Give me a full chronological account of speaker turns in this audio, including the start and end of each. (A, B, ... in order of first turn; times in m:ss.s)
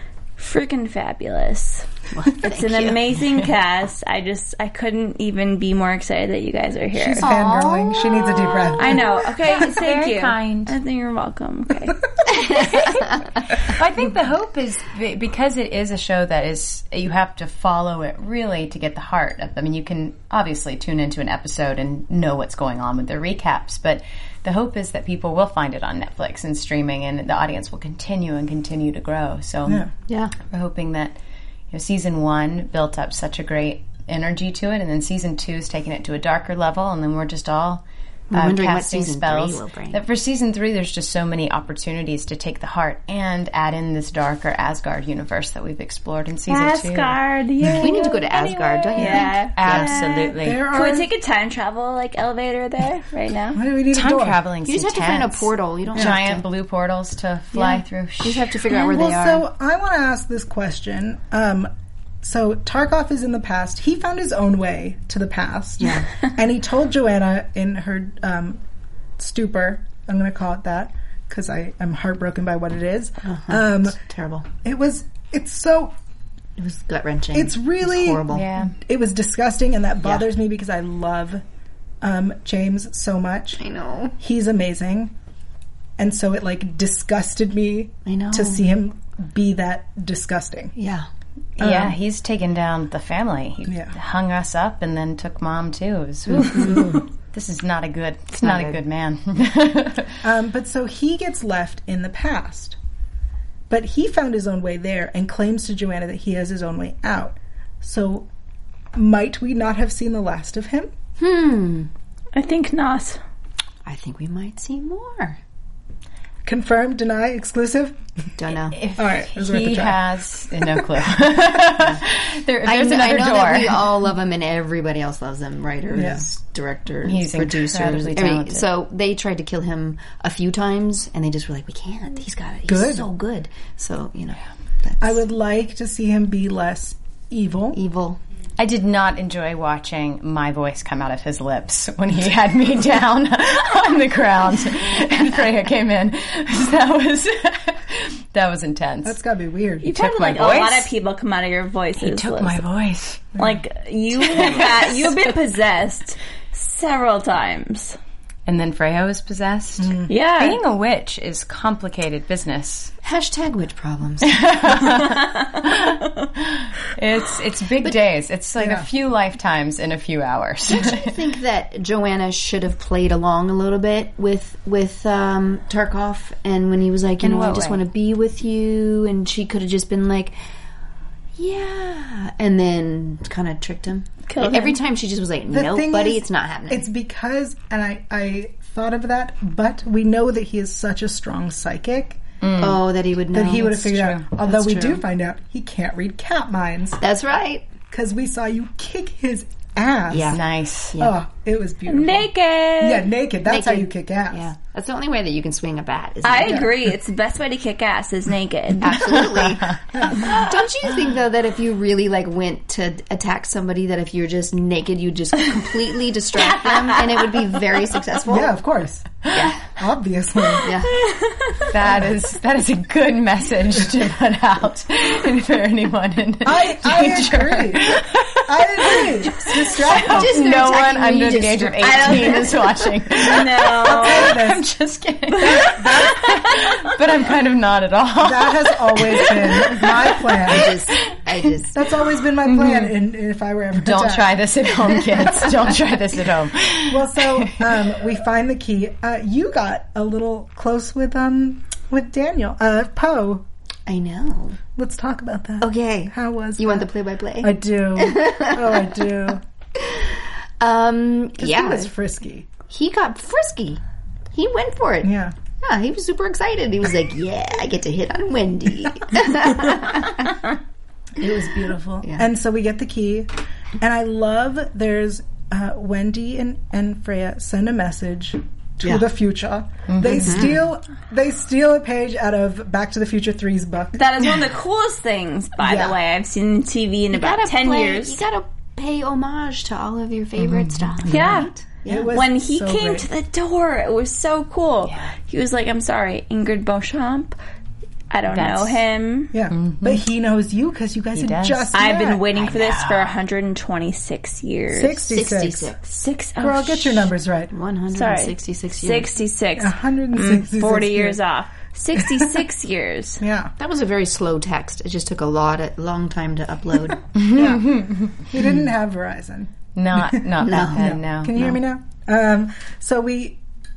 0:00.4-0:01.9 A
0:02.1-0:03.0 B
0:02.4-0:07.3 A
0:06.9-0:09.1 C
0:07.2-0:10.7 D
0:07.2-0:07.9 B
0:08.8-0:12.9 A
0:12.3-0:13.2 B
0:13.6-0:29.8 D
0:29.6-0:29.9 C
0:30.1-0:30.3 B
0:30.4-0:31.2 D
0:31.7-0:47.2 D
0:38.3-0:40.0 B
0:46.5-0:53.6 A
0:47.6-0:48.1 C
0:47.7-0:50.0 B
0:48.3-0:50.6 D
0:50.4-0:51.1 C
0:53.5-0:54.4 C
0:53.9-0:58.6 D
0:54.6-0:56.4 B
0:57.5-0:59.4 B
0:58.7-1:01.7 C
1:02.2-1:08.6 C
1:05.8-1:06.1 B
1:09.2-1:14.0 C
1:13.2-1:14.5 B
1:14.6-1:15.9 C
1:16.6-1:18.5 B
1:17.3-1:21.4 C
1:18.3-1:18.7 D
1:22.0-1:23.6 C
1:23.6-1:24.2 B
1:24.2-1:25.1 C
1:26.0-1:30.7 C
1:28.0-1:28.6 B
1:30.8-1:31.1 B
1:31.6-1:40.2 D
1:31.6-1:32.0 C
1:33.7-1:33.9 C
1:36.5-1:36.9 B
1:36.5-1:37.0 C
1:38.4-1:38.8 B
1:40.2-1:42.8 C
1:43.7-1:48.3 C
1:48.9-1:50.9 C
1:51.2-1:51.9 B
1:52.3-1:53.2 A
1:53.8-1:55.4 B
1:56.4-1:58.0 C
1:58.4-1:58.8 B
1:58.7-2:03.9 D
1:59.0-2:00.0 C
2:00.6-2:01.0 C
2:02.6-2:15.2 B
2:05.9-2:06.2 C
2:07.0-2:08.7 D
2:12.7-2:13.1 C
2:15.0-2:17.8 C
2:17.7-2:18.2 B
2:18.6-2:29.2 D
2:29.0-2:29.9 C
2:29.8-2:32.6 A
2:29.9-2:30.9 D
2:32.0-2:33.3 D
2:33.4-2:38.0 A
2:34.3-2:35.0 D
2:38.4-2:42.9 D
2:39.8-2:40.1 C
2:40.1-2:40.6 A
2:43.0-2:45.0 B
2:44.2-2:51.2 D
2:48.6-2:48.9 C
2:50.7-3:00.3 B
2:57.2-2:57.8 D
3:01.4-3:06.8 B
3:04.3-3:04.8 A
3:05.5-3:12.2 C
3:12.4-3:12.8 D
3:12.6-3:15.0 B
3:13.3-3:17.0 C
3:17.0-3:17.7 B
3:17.9-3:20.4 C
3:20.1-3:20.4 B
3:20.3-3:20.9 D
3:21.0-3:24.5 C
3:21.9-3:23.1 A
3:23.5-3:26.7 B
3:26.2-3:29.1 A
3:26.4-3:26.7 C
3:28.8-3:38.5 B
3:29.1-3:29.8 D
3:29.9-3:30.4 C
3:38.2-3:40.7 C
3:39.2-3:39.5 D
3:39.3-3:39.7 B
3:40.6-3:41.0 B
3:41.0-3:41.7 A
3:41.6-4:00.8 D
3:46.4-3:50.4 C
3:49.9-3:52.6 B
3:51.8-3:54.4 A
3:53.8-3:54.6 C
3:55.4-3:56.3 C
3:56.2-3:56.7 A
3:58.2-4:00.8 C
4:00.5-4:01.8 B
4:01.7-4:04.4 C
4:02.4-4:02.9 D
4:03.8-4:07.8 D
4:06.9-4:13.4 C
4:13.9-4:14.6 B
4:14.8-4:16.9 C
4:15.6-4:18.9 B
4:17.4-4:19.4 C
4:19.8-4:21.9 B
4:21.4-4:22.5 C
4:22.7-4:23.8 B
4:24.3-4:30.5 B
4:25.0-4:25.3 C
4:31.2-4:44.0 C
4:39.9-4:40.5 D
4:40.1-4:40.6 B
4:43.9-4:48.2 A
4:45.6-4:46.0 C
4:47.1-4:52.1 B
4:51.0-4:53.1 C
4:51.1-4:51.5 A
4:52.1-4:57.4 A
4:58.1-4:59.3 A
4:58.3-4:58.8 D
4:59.3-5:02.3 C
4:59.5-5:00.0 D
5:01.1-5:01.7 D
5:01.7-5:05.2 A
5:02.4-5:03.2 D
5:04.7-5:05.7 C
5:05.1-5:06.0 B
5:05.9-5:07.1 A
5:06.4-5:07.5 C
5:07.5-5:09.1 B
5:07.9-5:13.2 A
5:09.6-5:11.2 C
5:12.0-5:12.2 C
5:13.2-5:13.5 C
5:13.6-5:17.1 B
5:17.1-5:18.2 D
5:17.3-5:23.4 C
5:19.7-5:21.3 D
5:20.4-5:21.6 B